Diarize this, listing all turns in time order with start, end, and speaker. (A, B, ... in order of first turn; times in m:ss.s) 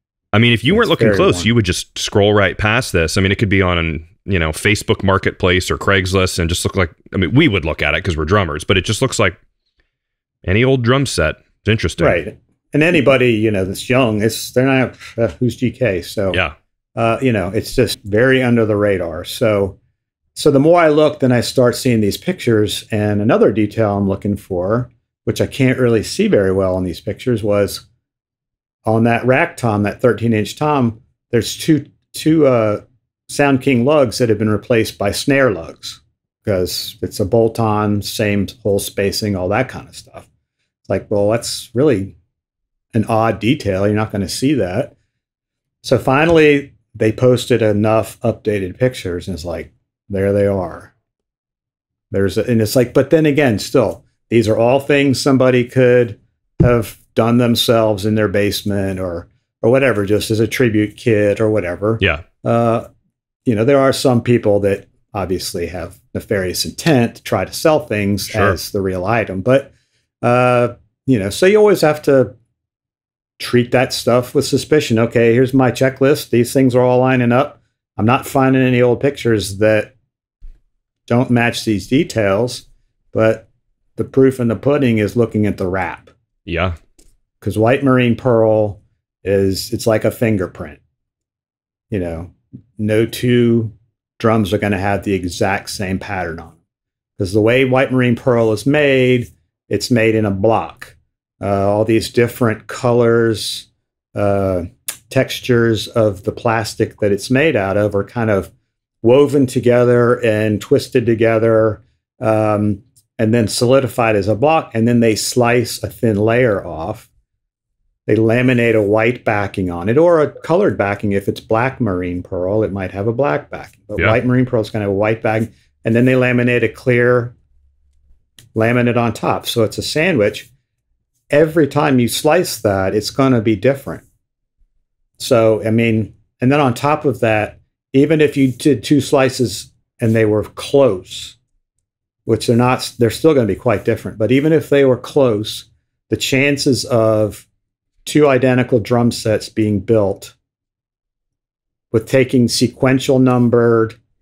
0:00.3-0:09.4 A
0:00.7-0:01.5 B
0:10.4-0:12.2 A
0:12.0-0:16.4 B
0:16.9-0:19.8 B
0:20.3-0:27.8 B
0:28.8-0:40.3 B
0:40.8-0:42.1 B
0:42.9-0:44.9 B
0:45.8-0:50.9 B
0:52.1-1:02.9 B
1:03.4-1:09.7 B
1:08.3-1:08.6 A
1:10.2-1:12.3 B
1:13.4-1:19.9 B
1:21.1-1:26.1 B
1:26.5-1:26.8 A
1:27.4-1:30.8 B
1:31.9-1:36.6 B
1:37.2-1:48.5 B
1:49.0-1:57.1 B
1:58.0-2:07.3 B
2:08.5-2:10.5 B
2:11.3-2:14.0 B
2:15.2-2:21.4 B
2:22.2-2:27.4 B
2:28.0-2:30.3 B
2:31.9-2:34.0 B